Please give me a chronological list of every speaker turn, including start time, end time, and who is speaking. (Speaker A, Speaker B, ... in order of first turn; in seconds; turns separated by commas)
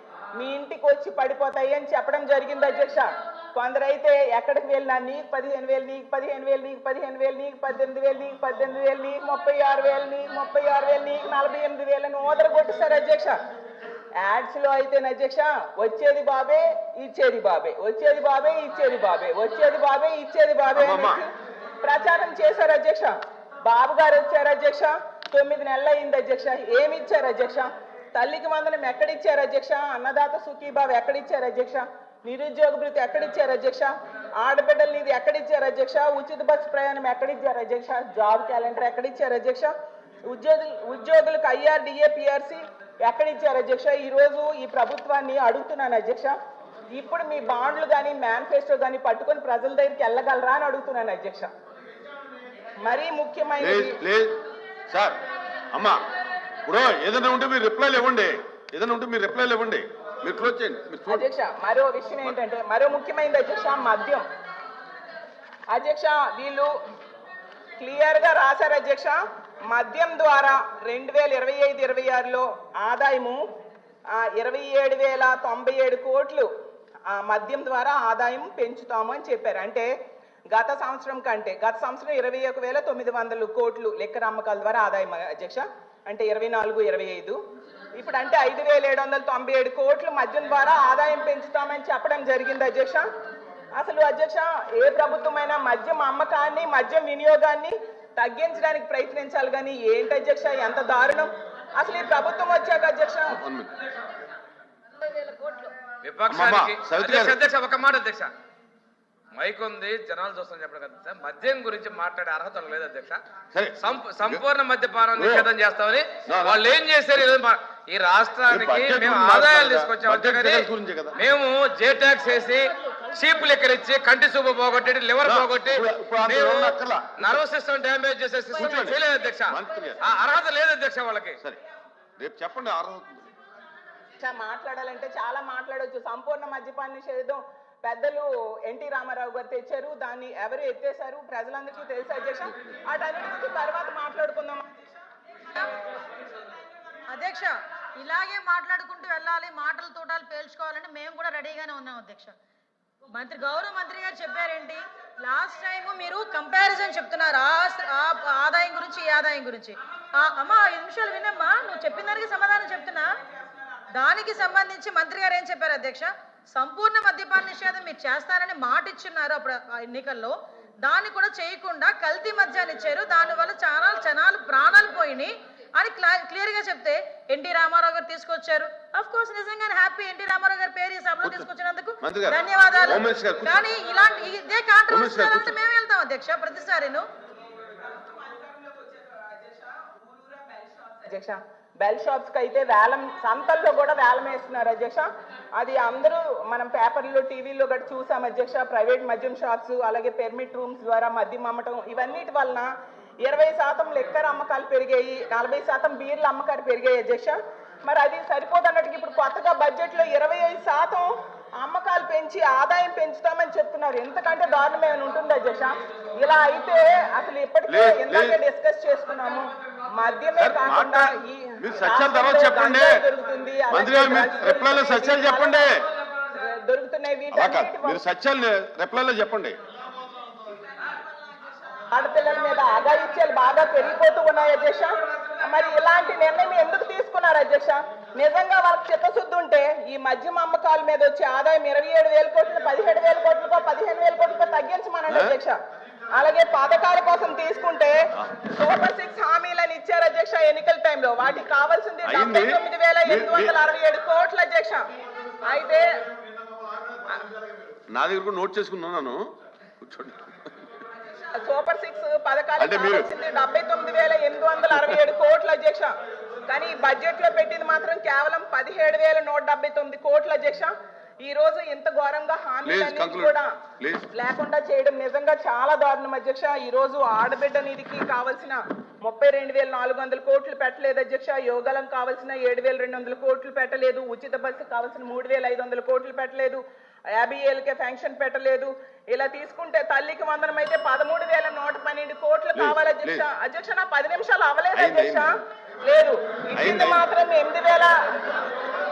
Speaker A: 0.3-13.3, Speaker A: 14.2-21.3, Speaker B: 20.7-21.2, Speaker A: 21.8-39.7, Speaker A: 40.3-46.3, Speaker A: 46.9-51.5, Speaker A: 52.8-54.0, Speaker B: 53.6-54.4, Speaker B: 54.9-55.2, Speaker B: 55.7-56.0, Speaker B: 56.6-61.2, Speaker A: 61.1-64.2, Speaker A: 65.7-66.7, Speaker A: 67.8-69.2, Speaker A: 69.7-73.4, Speaker A: 74.1-76.5, Speaker A: 77.1-79.9, Speaker A: 80.5-87.4, Speaker A: 88.0-93.0, Speaker A: 93.8-103.4, Speaker B: 103.3-103.7, Speaker C: 106.0-108.3, Speaker B: 106.3-107.4, Speaker C: 109.3-113.2, Speaker B: 113.5-114.4, Speaker C: 113.8-131.4, Speaker B: 115.1-115.5, Speaker B: 116.2-116.7, Speaker B: 118.5-121.2, Speaker B: 125.2-127.4, Speaker B: 128.5-130.1, Speaker B: 132.2-133.3, Speaker A: 134.2-145.0, Speaker D: 147.1-152.3, Speaker D: 153.1-163.1, Speaker A: 163.4-163.9, Speaker D: 163.9-187.1, Speaker B: 182.0-183.6, Speaker B: 184.9-185.5, Speaker A: 187.5-202.7, Speaker A: 203.2-225.7, Speaker B: 217.7-218.4, Speaker B: 220.4-221.1, Speaker B: 221.6-223.0, Speaker B: 223.7-225.7, Speaker A: 226.3-228.0, Speaker B: 227.3-229.6, Speaker A: 231.7-245.5, Speaker A: 246.1-248.0, Speaker A: 248.5-254.8, Speaker B: 252.0-253.5, Speaker A: 255.5-255.9, Speaker B: 257.9-259.2, Speaker B: 259.8-260.7, Speaker A: 261.2-265.9, Speaker B: 262.6-263.1, Speaker A: 266.5-273.5, Speaker B: 272.6-274.1, Speaker A: 274.1-297.9, Speaker B: 292.6-293.2, Speaker B: 294.7-295.3, Speaker B: 296.5-297.0